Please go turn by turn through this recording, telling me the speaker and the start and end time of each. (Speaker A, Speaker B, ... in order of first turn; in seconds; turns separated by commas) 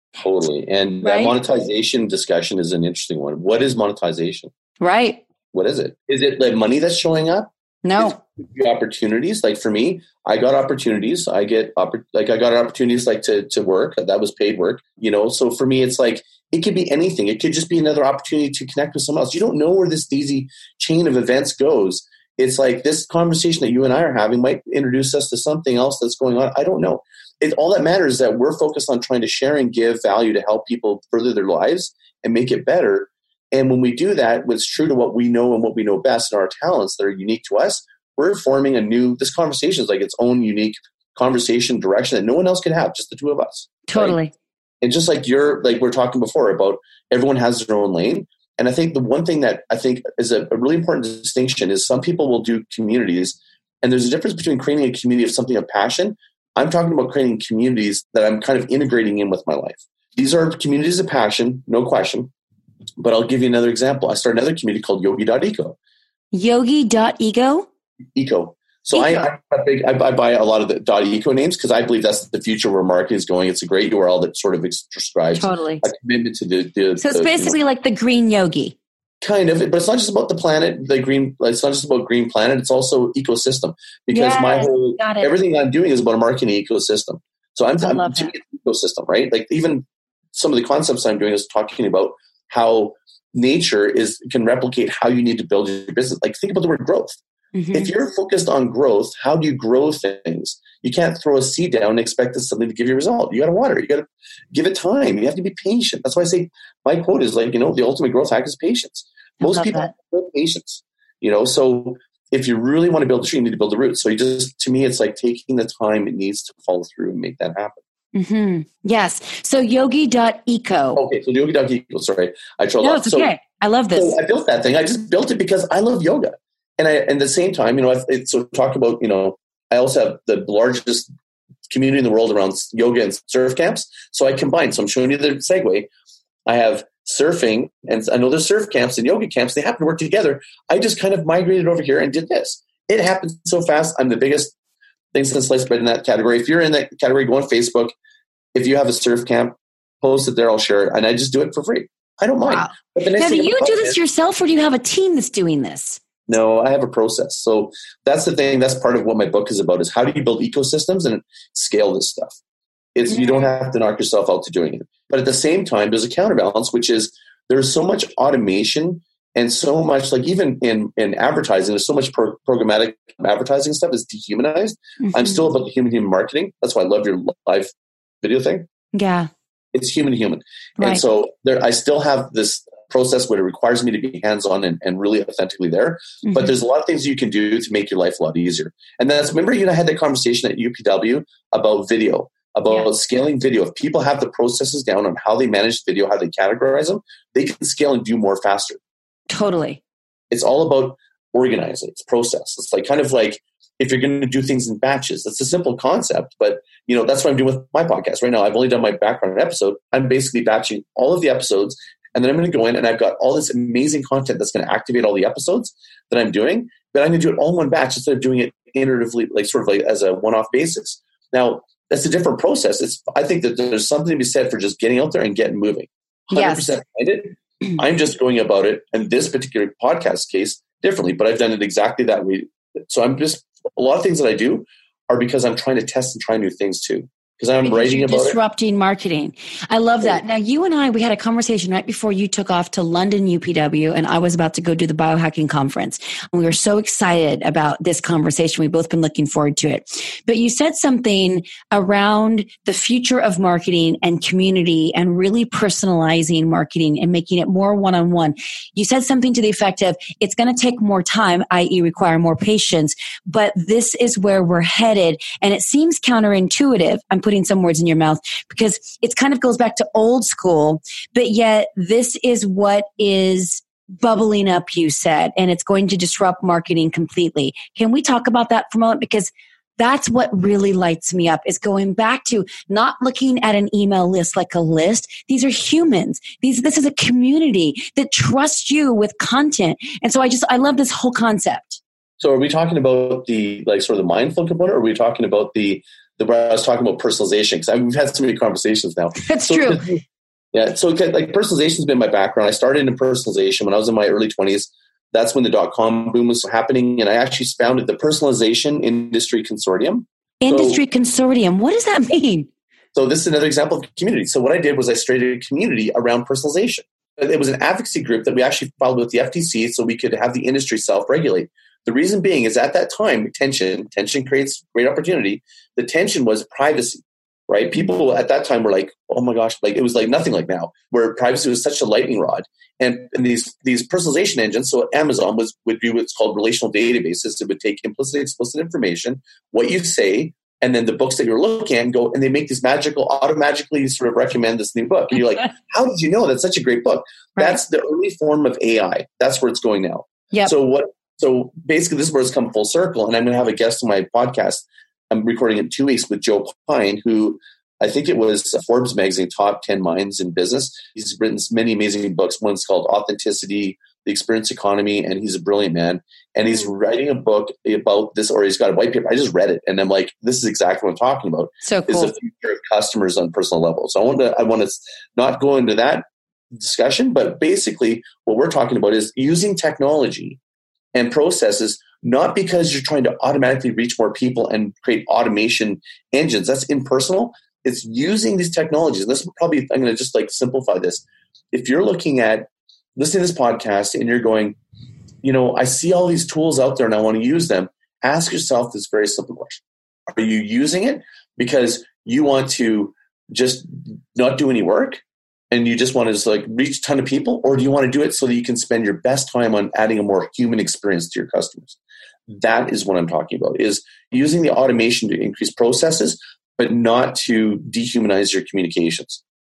Speaker A: 0.2-4.5, Speaker B: 1.0-1.3, Speaker B: 4.8-5.2, Speaker A: 5.5-44.2, Speaker B: 7.8-8.2, Speaker B: 43.9-44.3, Speaker A: 44.8-62.3, Speaker A: 63.0-65.8, Speaker B: 66.3-67.7, Speaker A: 68.1-77.5, Speaker B: 68.9-69.3, Speaker B: 75.3-75.8, Speaker B: 77.0-78.7, Speaker A: 79.2-97.2, Speaker B: 84.1-85.3, Speaker B: 87.8-88.3, Speaker B: 97.5-97.9, Speaker A: 97.7-117.8, Speaker B: 109.4-109.9, Speaker B: 118.1-121.0, Speaker A: 120.9-123.3, Speaker B: 122.8-124.2, Speaker A: 123.9-131.1, Speaker A: 131.7-135.9, Speaker A: 136.4-144.5, Speaker A: 145.1-147.9, Speaker A: 148.5-153.9, Speaker B: 152.4-156.0, Speaker A: 156.3-162.4, Speaker A: 162.9-177.7, Speaker B: 163.1-163.5, Speaker B: 175.0-175.4, Speaker A: 178.2-178.7, Speaker B: 178.9-179.3, Speaker A: 179.7-198.8, Speaker B: 186.2-186.5, Speaker B: 199.3-199.8, Speaker A: 200.3-238.4, Speaker B: 226.3-226.8, Speaker B: 237.6-291.8, Speaker A: 292.2-300.0, Speaker B: 299.2-299.8, Speaker A: 300.5-310.8, Speaker B: 310.4-312.5, Speaker A: 312.9-376.0, Speaker B: 371.6-372.1, Speaker A: 376.5-380.4, Speaker A: 380.9-394.6, Speaker A: 395.2-411.8, Speaker A: 412.3-419.2